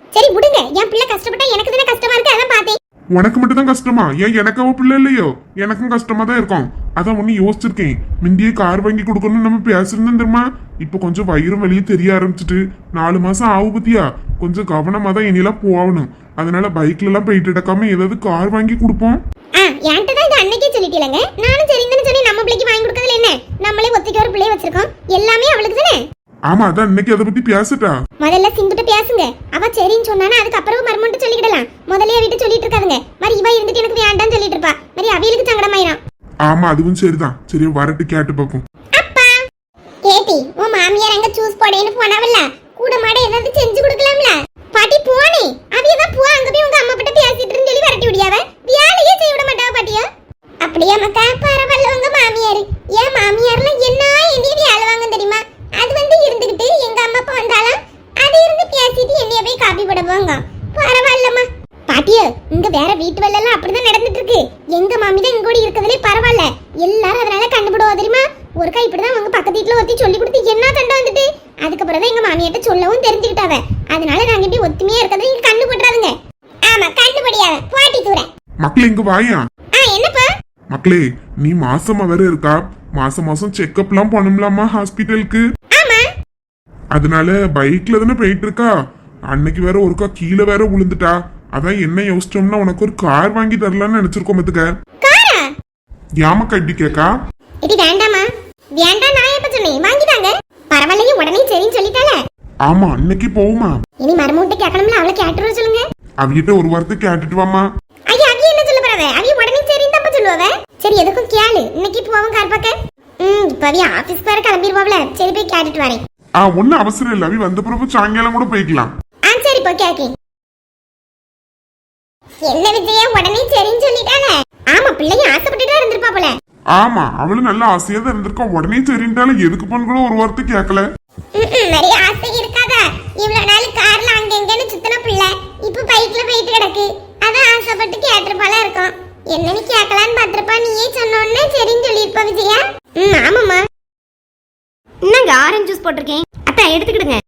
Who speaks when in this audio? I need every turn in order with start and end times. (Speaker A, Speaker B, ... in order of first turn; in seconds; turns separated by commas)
Speaker A: 0.1-2.8, Speaker B: 3.1-19.2, Speaker A: 19.6-26.0, Speaker B: 26.5-27.9, Speaker A: 28.2-36.0, Speaker B: 36.5-38.6, Speaker A: 38.9-39.4, Speaker A: 40.0-50.1, Speaker A: 50.6-76.1, Speaker A: 76.7-78.3, Speaker B: 78.6-79.4, Speaker A: 79.7-80.3, Speaker B: 80.7-85.4, Speaker A: 85.7-86.1, Speaker B: 86.9-88.7, Speaker B: 89.3-94.7, Speaker A: 95.0-95.5, Speaker B: 96.2-97.1, Speaker A: 97.6-102.2, Speaker B: 102.7-103.8, Speaker A: 104.0-105.8, Speaker B: 106.2-107.7, Speaker A: 108.1-116.0, Speaker B: 116.4-118.9, Speaker A: 119.2-120.1, Speaker A: 122.4-126.3, Speaker B: 126.8-130.8, Speaker A: 131.3-143.6, Speaker C: 145.0-147.2